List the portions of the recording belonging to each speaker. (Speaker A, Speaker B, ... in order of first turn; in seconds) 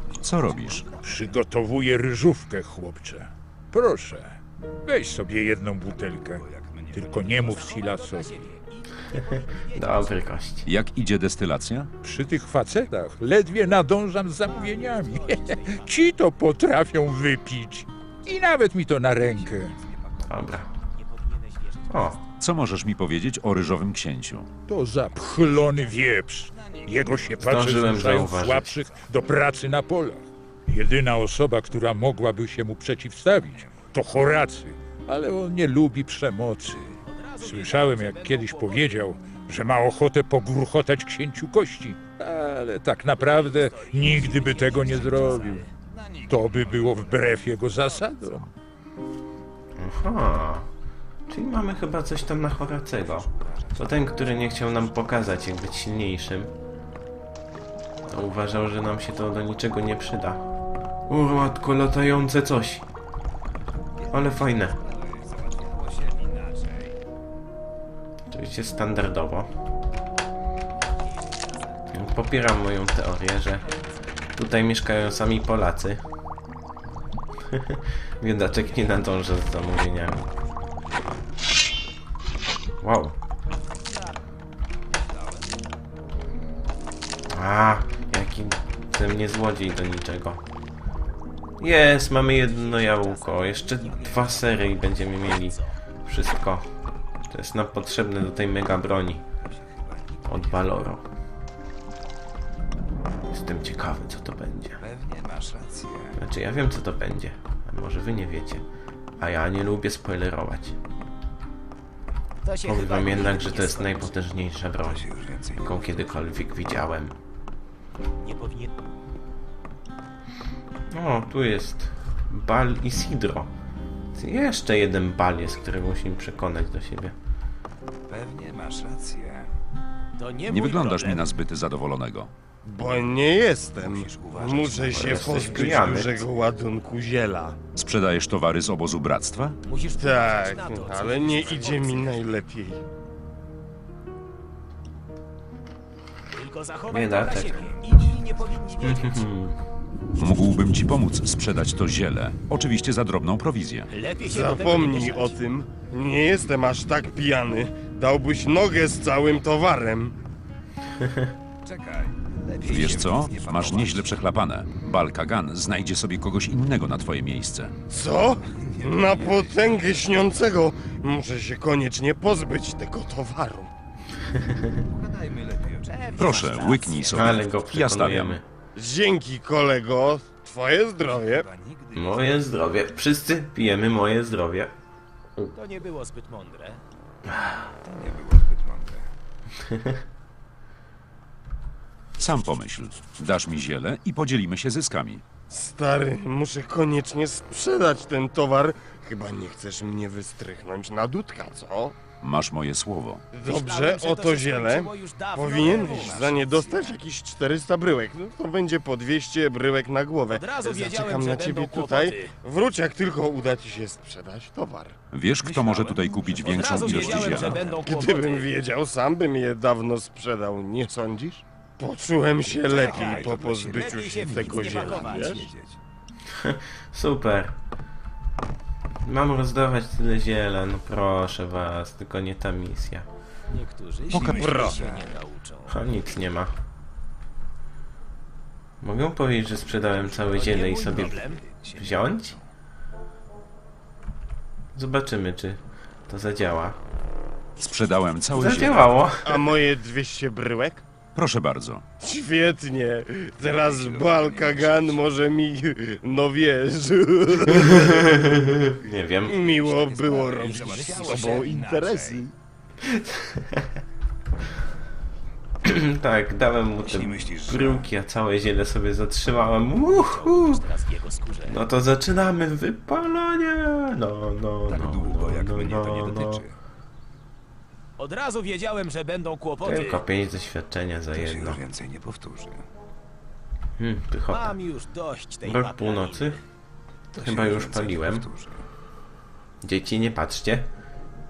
Speaker A: 0.2-1.1, 6.0-7.7, 19.2-20.6, 25.4-27.5, 33.5-33.9, 45.9-48.4, 53.0-55.1, 64.0-66.9, 85.0-85.3, 99.5-100.9, 104.8-106.1, 114.8-115.8, 128.1-129.5, 133.8-135.8, 161.7-164.3, 168.8-170.2, 174.9-176.7, 181.2-182.3, 187.8-189.1, 205.6-206.9, 215.4-217.8, 222.5-225.8, 234.1-235.1, 240.1-241.9, 253.4-255.1, 259.4-262.3, 266.9-267.8, 274.7-276.5, 281.1-282.6, 287.1-288.6
Speaker B: 0.2-0.9, 10.7-11.9, 22.4-24.5, 130.5-132.3, 137.8-139.6, 150.2-153.9, 162.7-167.7, 176.1-178.4, 192.2-195.2, 202.2-203.2, 215.1-217.6, 247.6-248.9, 251.1-251.8
Speaker C: 1.0-8.4, 12.0-19.7, 24.7-36.8, 37.4-45.6, 46.3-48.5
Speaker D: 7.4-10.3, 14.4-16.0, 20.9-22.3, 37.1-39.0, 43.2-45.7, 70.9-72.0, 73.7-74.0, 92.3-95.7, 112.4-114.2, 118.2-118.7, 130.2-131.3, 139.7-142.3, 146.3-149.3, 153.9-155.4, 175.8-177.5, 185.6-186.8, 203.4-206.5, 210.3-212.3, 216.4-218.5, 222.7-225.4, 233.5-235.8, 240.3-241.4, 260.4-261.6, 269.9-271.6, 278.0-280.0, 284.3-286.4
Speaker E: 9.7-10.7, 20.3-20.7, 21.9-22.2, 27.4-28.8, 49.8-50.7, 51.3-56.5, 58.1-60.4, 61.1-62.9, 64.1-64.8, 68.3-69.5, 71.9-73.7, 74.4-76.0, 77.5-80.3, 82.8-83.2, 87.3-90.4, 91.6-96.7, 97.3-99.2, 100.3-101.0, 103.3-104.8, 106.2-108.6, 109.2-110.8, 112.7-115.1, 115.6-117.2, 120.9-123.5, 124.1-127.2, 134.9-136.2, 146.9-147.7, 148.8-149.6, 174.3-174.8, 177.1-178.4, 181.9-184.7, 189.6-190.0, 226.3-227.6, 229.0-233.1, 235.7-236.5, 238.8-241.2, 241.8-242.4, 244.8-246.8, 248.3-249.4, 257.5-259.4, 262.9-263.8, 265.6-270.6, 271.4-276.4, 279.6-281.6, 283.8-284.6, 285.4-286.4, 287.2-288.3, 289.6-290.7
Speaker F: 132.7-137.6, 139.9-142.8, 154.2-160.2, 167.9-173.7, 178.8-181.5, 195.5-202.0, 203.3-215.0, 217.7-225.5, 234.1-234.8, 249.2-250.8, 252.0-258.2, 259.3-262.3